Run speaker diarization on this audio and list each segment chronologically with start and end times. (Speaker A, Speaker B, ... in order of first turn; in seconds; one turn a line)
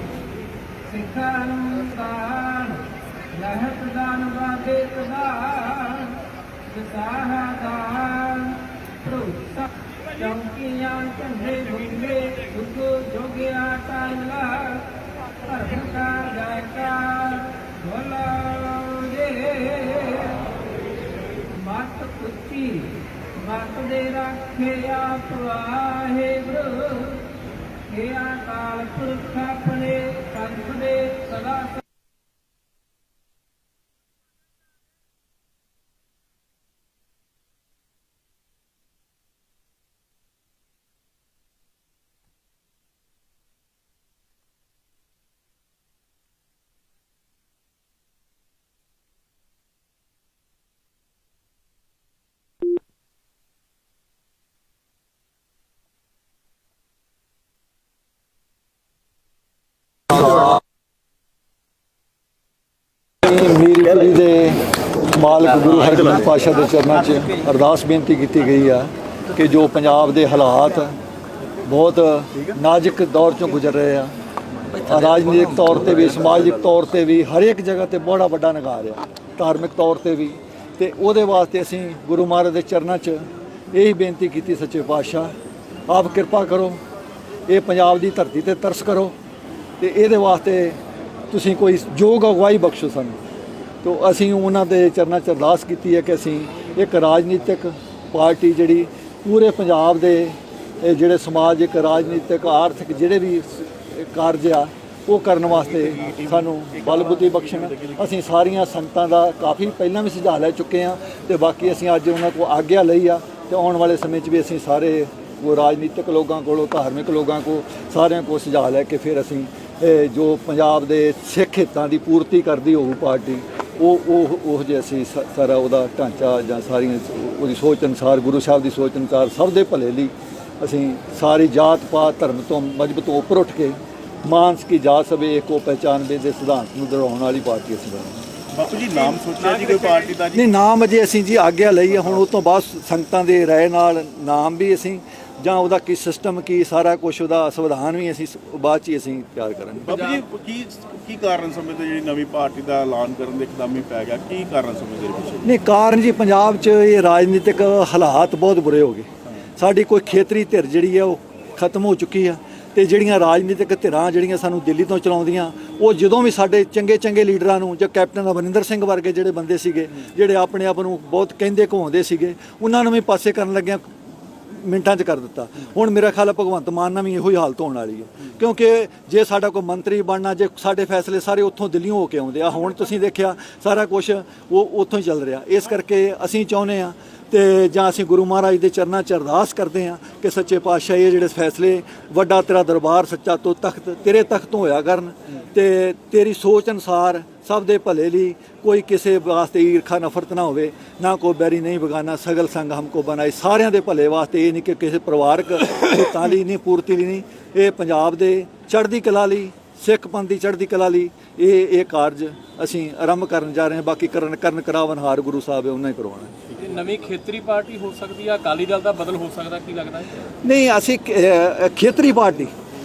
Speaker A: 0.9-20.5
Speaker A: 21.5-27.3
Speaker A: 27.9-31.8
Speaker B: 63.2-71.0
Speaker B: 71.7-74.1
Speaker B: 74.7-85.3
Speaker B: 85.9-86.8
Speaker B: 87.5-89.2
Speaker B: 89.8-93.2
Speaker B: 93.8-138.2
Speaker C: 105.6-108.1
Speaker C: 138.5-140.4
Speaker D: 138.9-140.2
Speaker B: 140.3-149.9
Speaker C: 149.9-155.5
Speaker D: 149.9-150.2
Speaker B: 155.4-216.3
Speaker D: 216.5-220.1
Speaker B: 220.4-222.5